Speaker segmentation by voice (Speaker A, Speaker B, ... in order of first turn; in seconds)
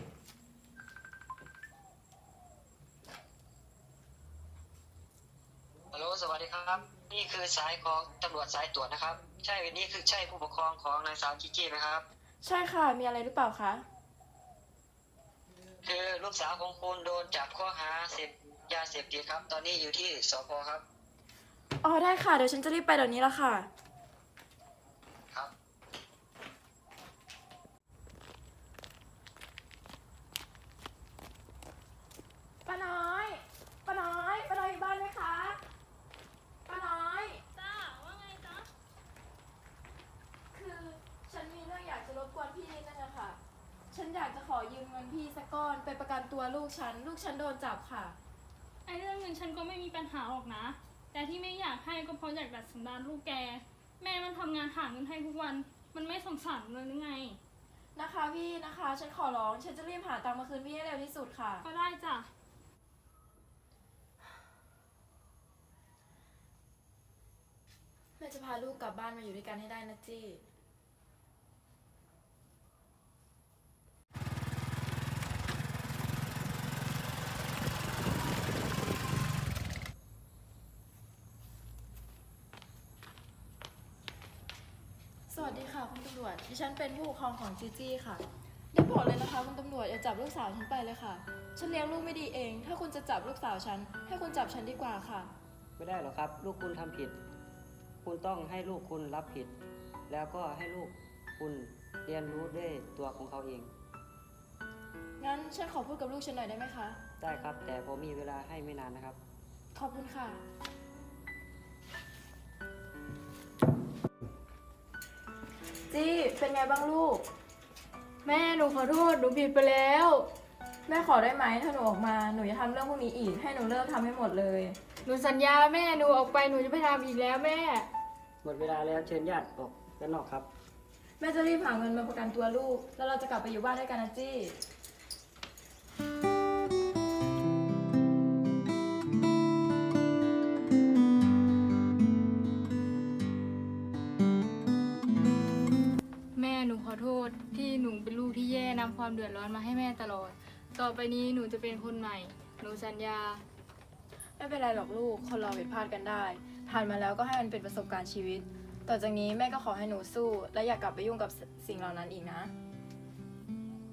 Speaker A: 5.9-12.0, 15.8-20.8
Speaker B: 12.4-13.8, 21.8-23.7, 32.7-35.6, 36.7-37.4, 40.5-43.4, 43.9-48.2, 57.9-61.7, 68.2-70.4, 85.3-95.3, 105.2-107.0, 109.7-110.4, 115.9-117.2, 120.9-124.8, 131.2-134.6, 154.4-162.5
Speaker C: 37.6-38.7, 48.9-57.4, 61.6-62.3
Speaker D: 95.8-97.2, 98.0-99.5, 100.1-103.7, 107.2-109.2, 128.4-130.5
Speaker E: 118.2-120.2, 125.0-127.9, 146.4-153.4